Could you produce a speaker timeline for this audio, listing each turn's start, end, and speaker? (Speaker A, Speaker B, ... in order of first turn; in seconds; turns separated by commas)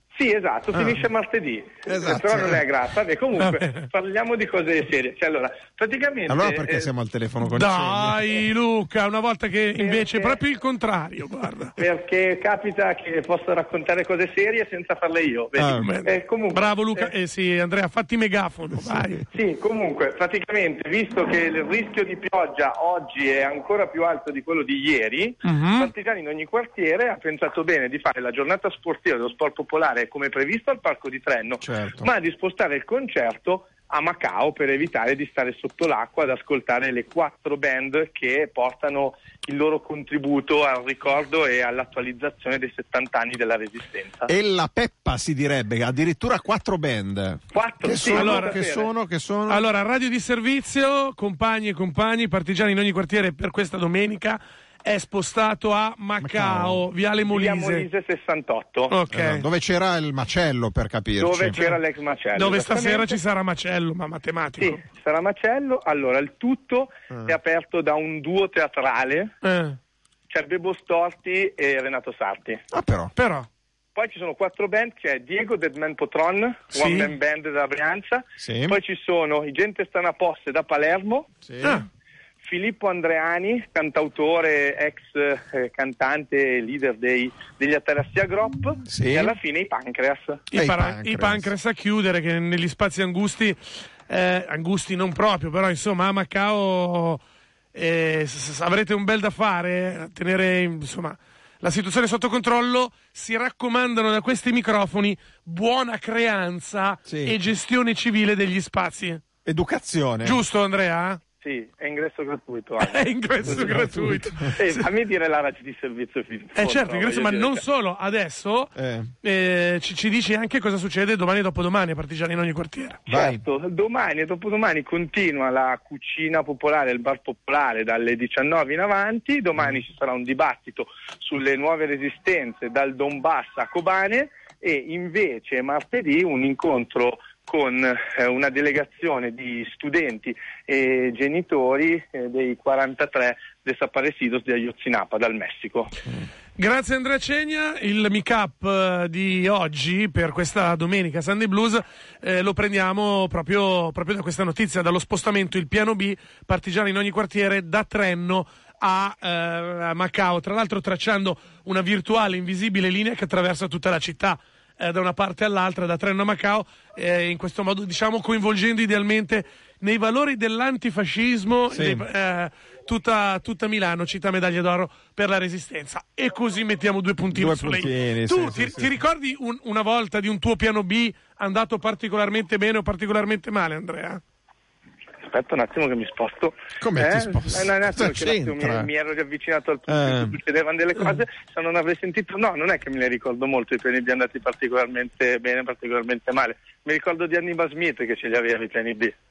Speaker A: 0.1-6.9, Speaker B: 0.7-1.0, Speaker B: 1.9-2.6, Speaker C: 3.4-3.8, Speaker B: 6.3-8.3, Speaker C: 7.4-11.8, Speaker A: 9.8-10.4, Speaker A: 11.8-17.1, Speaker B: 15.6-15.9, Speaker C: 15.7-19.2, Speaker B: 18.8-19.2, Speaker A: 19.3-44.3, Speaker C: 25.4-25.9, Speaker B: 31.6-32.1, Speaker B: 44.3-49.6, Speaker A: 47.5-48.9, Speaker C: 48.1-48.6, Speaker C: 49.5-57.9, Speaker B: 56.2-56.9, Speaker A: 57.3-58.9, Speaker C: 58.9-59.5, Speaker B: 59.1-61.6, Speaker A: 61.2-63.2, Speaker C: 61.5-61.8, Speaker C: 62.3-64.8, Speaker A: 64.6-69.3, Speaker B: 67.1-67.3, Speaker C: 69.4-69.8, Speaker A: 70.3-72.6, Speaker B: 72.7-73.1, Speaker C: 73.1-73.5, Speaker A: 74.0-81.3, Speaker C: 76.7-77.1, Speaker B: 78.4-78.8, Speaker B: 81.4-81.8, Speaker A: 82.4-90.4, Speaker B: 88.9-89.4, Speaker C: 90.5-97.2, Speaker B: 90.5-91.5, Speaker C: 97.7-109.2, Speaker B: 107.0-107.4, Speaker B: 109.4-110.4, Speaker C: 110.2-111.2, Speaker A: 111.4-117.6, Speaker C: 112.8-114.8, Speaker B: 113.5-114.3, Speaker C: 116.5-123.0, Speaker B: 118.8-119.1, Speaker B: 123.1-123.4, Speaker A: 123.1-145.9, Speaker C: 146.6-184.2, Speaker B: 171.7-172.1, Speaker B: 177.3-178.9, Speaker A: 185.2-199.1, Speaker B: 186.8-188.9, Speaker B: 189.9-190.3